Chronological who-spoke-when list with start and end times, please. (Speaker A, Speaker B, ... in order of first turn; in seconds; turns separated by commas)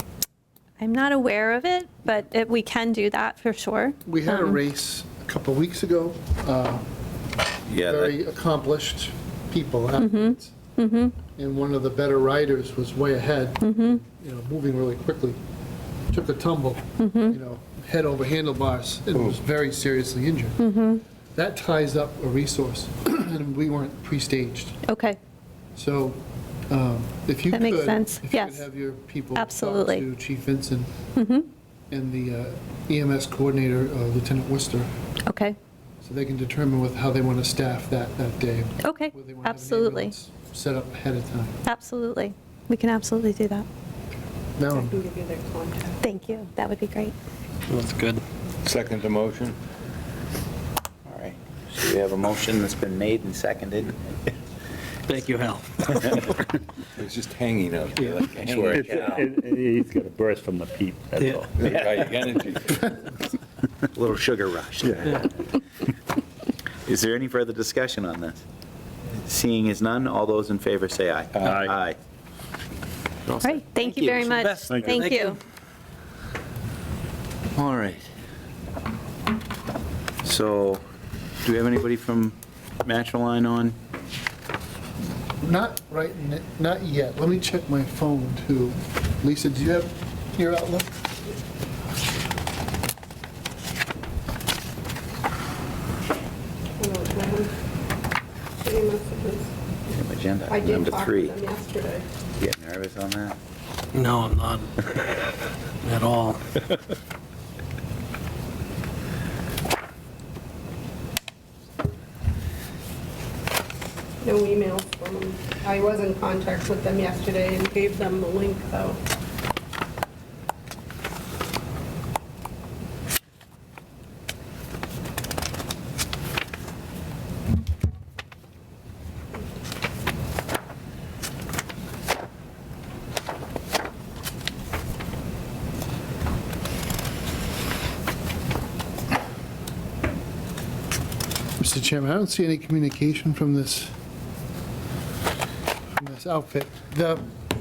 Speaker A: 0.8-4.6, Speaker B: 4.0-6.8, Speaker C: 7.7-8.1, Speaker B: 7.8-10.6, Speaker A: 10.0-11.2, Speaker B: 11.3-15.4, Speaker A: 13.6-14.0, Speaker B: 16.1-20.7, Speaker A: 17.0-17.4, Speaker A: 20.6-21.0, Speaker B: 21.3-24.8, Speaker A: 24.9-25.2, Speaker B: 25.7-30.9, Speaker A: 27.5-28.6, Speaker A: 29.3-30.0, Speaker A: 31.1-31.5, Speaker B: 31.9-34.9, Speaker A: 35.2-35.6, Speaker B: 36.0-41.6, Speaker A: 38.8-40.1, Speaker A: 41.6-43.6, Speaker B: 44.6-45.0, Speaker D: 44.7-46.0, Speaker A: 46.0-47.1, Speaker E: 47.7-48.2, Speaker F: 48.6-49.6, Speaker C: 51.1-54.0, Speaker E: 55.1-56.4, Speaker F: 57.0-58.7, Speaker C: 58.3-59.2, Speaker G: 58.6-61.8, Speaker F: 61.6-62.9, Speaker C: 63.9-65.3, Speaker C: 66.8-68.4, Speaker C: 69.2-72.0, Speaker G: 71.5-71.7, Speaker C: 73.3-74.5, Speaker A: 73.4-75.4, Speaker E: 74.2-75.3, Speaker G: 74.7-75.1, Speaker C: 77.5-78.1, Speaker C: 80.2-80.8, Speaker C: 81.4-83.8, Speaker B: 85.4-90.9, Speaker D: 96.8-97.5, Speaker D: 98.6-99.5, Speaker C: 99.9-101.3, Speaker D: 100.5-102.0, Speaker C: 102.4-103.3, Speaker E: 103.9-105.3, Speaker E: 105.8-106.4, Speaker D: 114.2-119.0, Speaker B: 141.6-143.9, Speaker B: 146.0-147.2